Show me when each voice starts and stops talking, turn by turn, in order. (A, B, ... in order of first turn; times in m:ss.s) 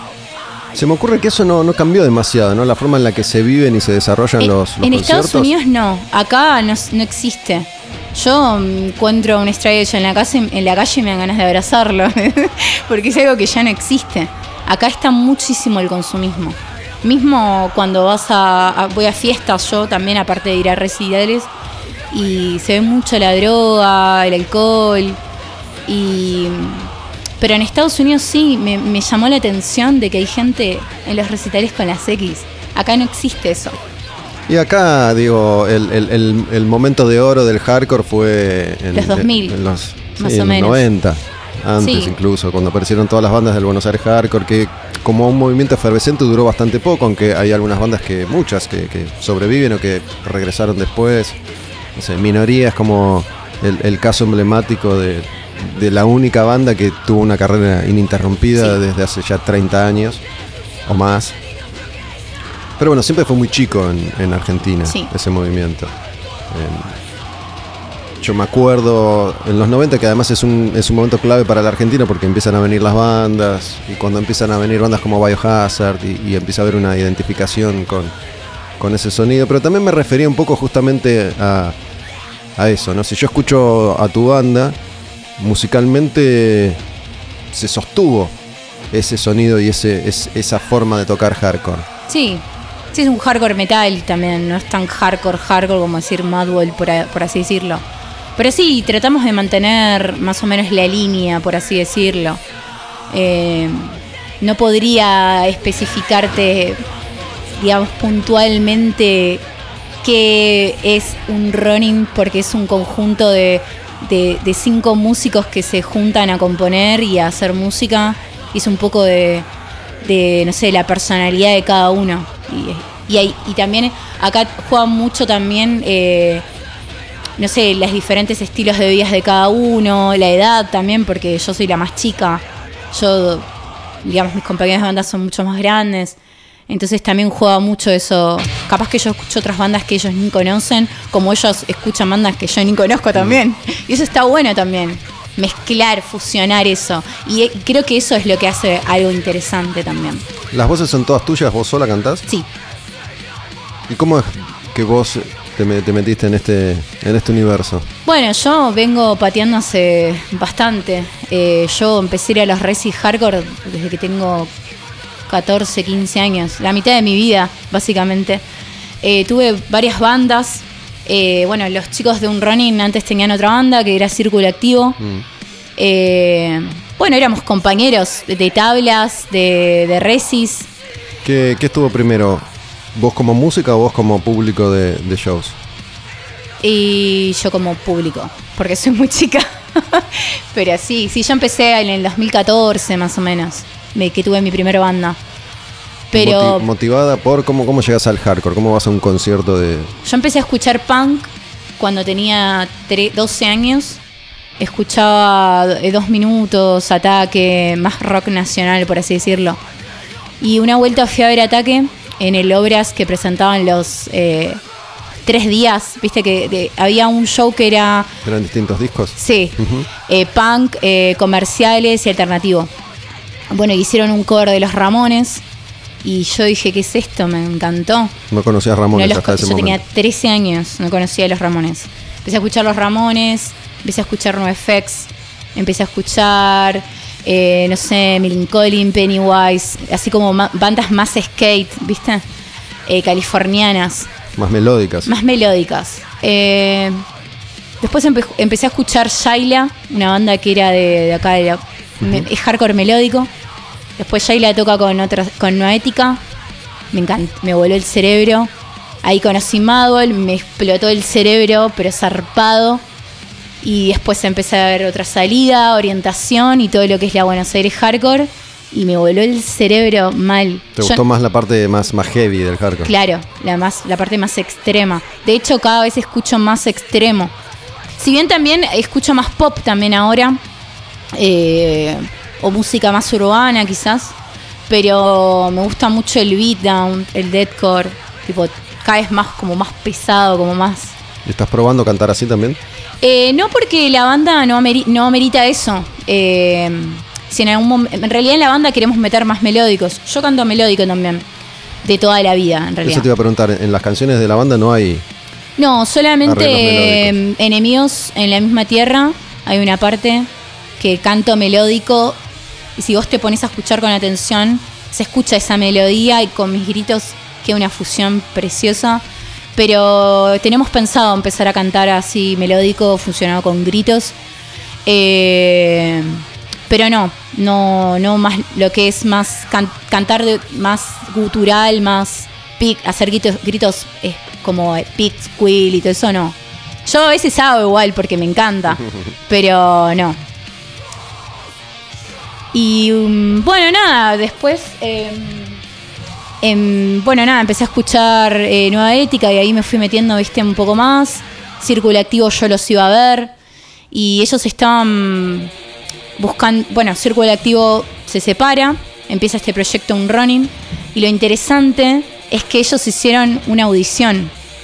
0:00.7-0:05.5 A
0:04.4-0:21.5 B
0:22.1-0:25.2 B
0:25.9-0:33.8 B
0:34.5-0:51.4 A
0:38.9-0:39.6 B
0:40.2-0:40.8 B
0:41.8-0:42.1 B
0:51.9-1:00.2 A
1:00.8-1:01.4 A
1:02.8-1:05.9 A
1:06.5-1:07.0 A
1:08.2-1:18.1 A
1:18.8-1:21.8 A
1:22.6-1:24.8 A
1:25.4-1:26.8 A
1:27.5-1:28.3 A
1:28.9-1:31.9 A
1:32.1-1:37.8 B
1:38.4-1:42.4 B
1:43.1-1:46.8 B
1:47.6-1:49.4 B
1:50.0-1:59.5 B
2:00.0-2:06.4 B
2:07.4-2:13.5 B
2:14.0-2:16.2 B
2:16.7-2:30.2 B
2:23.1-2:23.4 A
2:30.5-2:32.2 A
2:33.9-2:37.9 A
2:38.0-2:44.5 B
2:45.3-2:48.4 B
2:49.0-2:55.0 B
2:55.0-2:55.2 A
2:55.8-3:00.7 B
3:01.2-3:05.6 A
3:06.6-3:15.2 B
3:16.1-3:19.9 A
3:16.1-3:16.7 B
3:20.0-3:24.0 B
3:24.6-3:29.6 B
3:30.4-3:34.6 B
3:35.2-3:38.1 B
3:38.2-3:39.9 A
3:39.2-3:42.7 B
3:43.5-3:45.4 B
3:46.0-3:48.2 B
3:48.3-3:49.8 A
3:48.9-4:02.2 B
4:02.8-4:04.1 B
4:04.4-4:05.1 A
4:05.0-4:07.0 B
4:07.8-4:13.3 B
4:14.0-4:16.2 B
4:16.9-4:18.5 B
4:19.0-4:22.8 B
4:23.6-4:31.0 B
4:30.8-4:32.9 A
4:32.8-4:37.3 B
4:38.0-4:40.4 B
4:41.1-4:44.2 B
4:44.7-4:51.0 B
4:51.2-4:52.6 A
4:53.0-5:01.2 B
5:01.8-5:03.1 B
5:02.8-5:05.0 A
5:05.6-5:12.2 B
5:06.2-5:07.2 A
5:12.8-5:19.0 B
5:19.6-5:24.2 B
5:24.8-5:40.2 B
5:42.5-5:45.6 B
5:46.4-5:53.3 B
5:53.9-5:55.5 B
5:56.2-6:04.3 B